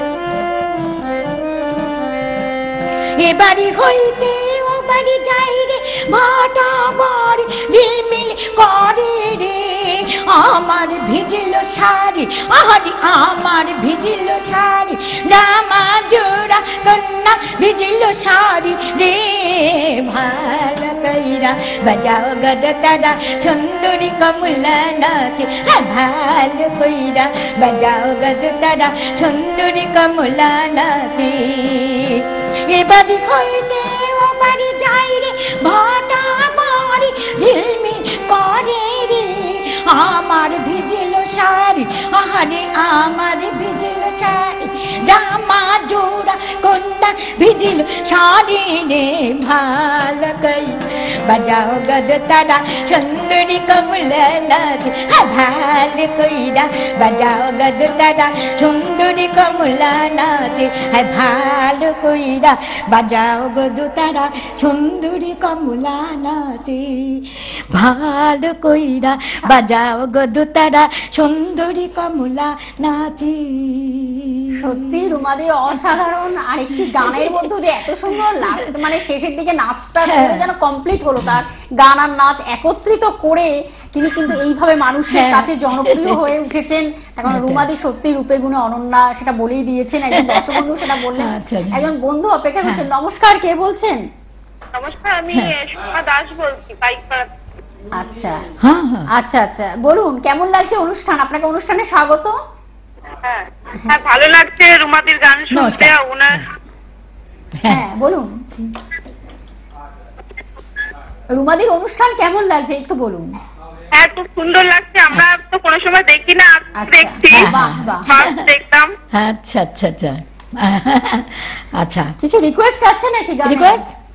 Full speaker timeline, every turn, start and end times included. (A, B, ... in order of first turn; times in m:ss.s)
0:03.2-1:15.2 A
1:14.6-1:34.0 B
1:15.7-1:16.0 A
1:16.7-1:17.5 A
1:18.1-1:18.8 A
1:20.0-1:20.5 A
1:25.1-1:26.3 A
1:27.3-1:27.7 A
1:30.1-1:31.9 A
1:34.8-1:37.3 C
1:37.9-1:38.5 B
1:38.6-1:39.1 A
1:39.1-1:42.4 B
1:43.2-1:46.4 C
1:45.5-1:46.4 A
1:47.6-1:47.8 A
1:47.7-1:48.7 B
1:51.4-1:53.3 B
1:53.9-1:57.5 C
1:56.8-1:58.1 B
1:57.3-1:58.5 A
1:58.0-1:58.9 C
1:59.1-2:02.1 A
2:02.2-2:03.8 B
2:03.4-2:03.9 A